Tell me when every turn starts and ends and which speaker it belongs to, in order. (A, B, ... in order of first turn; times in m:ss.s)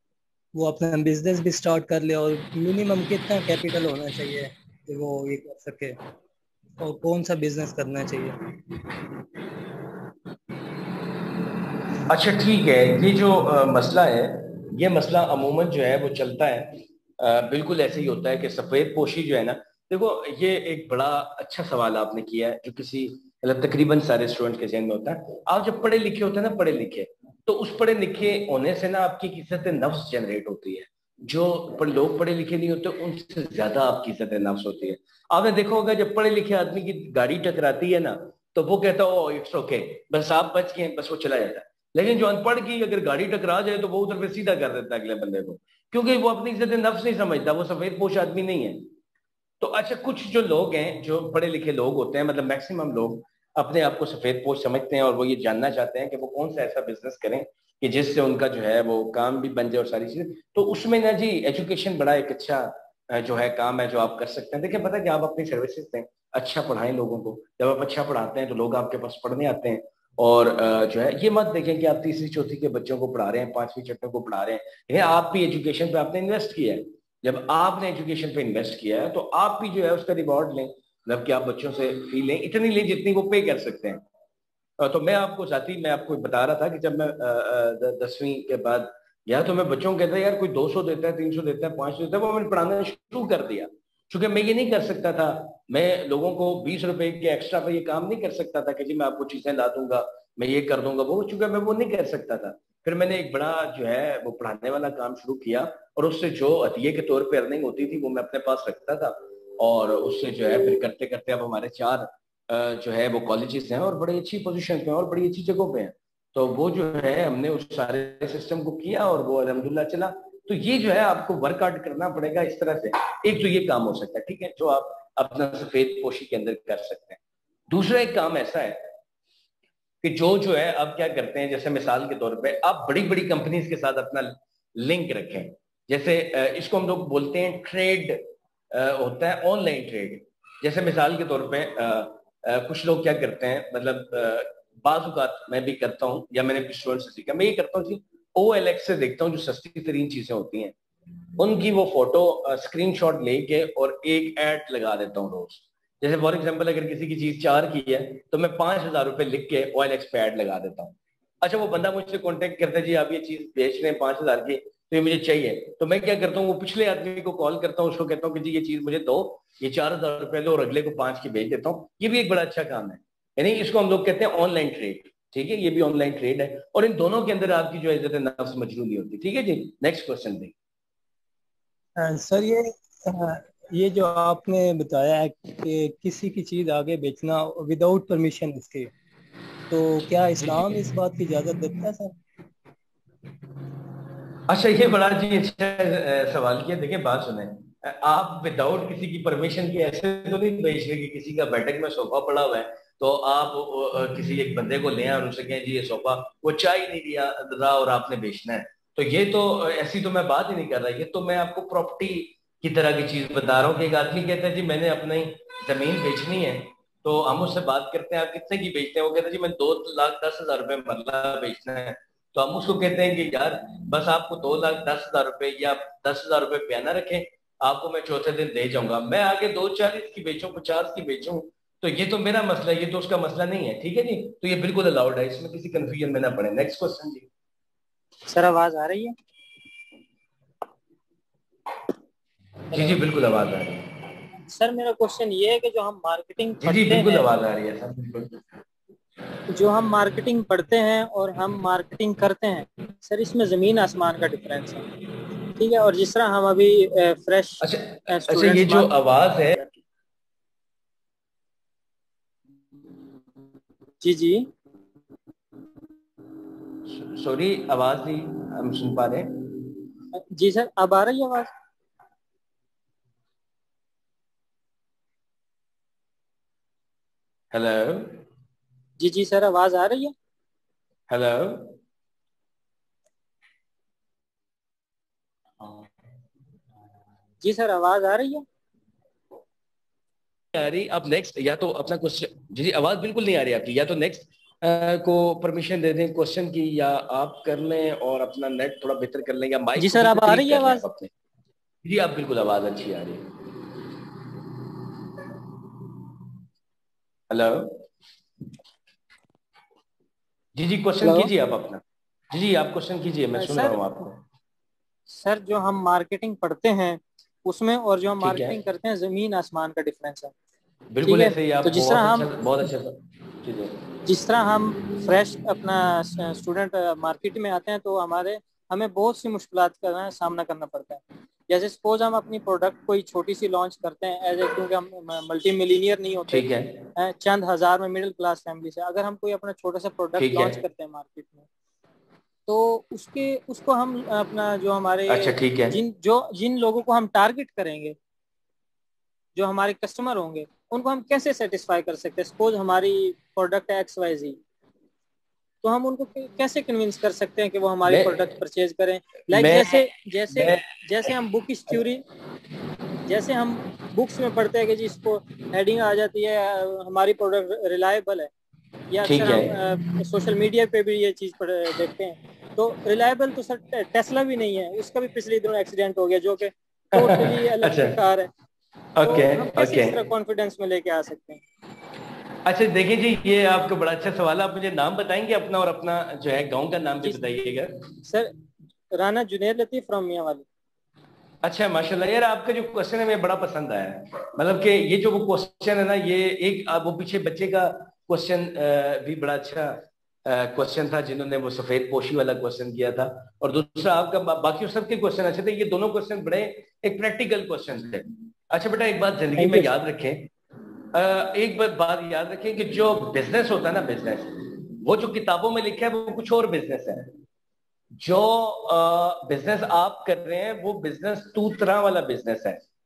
0:00.5-0:06.0 A
0:06.8-0:08.4 A
0:12.1-0:48.9 B
0:49.6-1:24.0 B
1:24.8-2:07.2 B
2:07.7-2:08.9 B
2:10.0-2:18.2 B
2:18.7-2:30.7 B
2:31.4-3:00.5 B
3:02.0-3:08.9 A
3:09.7-3:12.1 A
3:10.4-3:10.8 B
3:14.5-3:57.3 B
3:58.3-3:59.1 C
4:02.7-4:03.0 C
4:02.7-4:03.9 B
4:04.5-4:07.3 C
4:06.6-4:08.4 B
4:09.5-4:14.8 C
4:15.6-4:18.9 C
4:17.6-4:19.7 B
4:24.0-4:24.5 C
4:26.9-4:29.4 B
4:30.1-4:31.5 C
4:37.5-4:38.2 B
4:39.0-4:40.1 C
4:41.1-4:41.8 B
4:47.4-4:48.4 C
4:50.5-5:01.1 B
4:59.8-5:00.9 C
5:01.8-5:03.3 B
5:07.3-5:07.8 B
5:10.6-5:14.2 B
5:11.0-5:11.3 C
5:13.4-5:13.8 C
5:15.1-5:20.3 C
5:18.2-5:18.6 B
5:20.9-5:23.7 B
5:21.0-5:22.3 C
5:24.0-5:41.5 C
5:36.3-5:36.9 B
5:40.2-5:40.6 B
5:42.5-5:47.9 C
5:45.1-5:45.8 B
5:49.3-5:54.4 C
5:55.6-6:02.0 C
5:57.9-5:58.3 B
5:59.3-6:00.7 B
6:03.0-6:08.3 C
6:08.9-6:18.3 C
6:09.0-6:09.6 B
6:16.9-6:18.0 B
6:19.0-6:20.0 B
6:19.0-6:21.4 C
6:22.4-6:27.7 B
6:28.1-6:28.3 C
6:28.9-6:30.4 C
6:31.4-6:50.3 B
6:49.4-6:49.7 C
6:50.9-6:57.1 B
6:58.0-7:02.6 B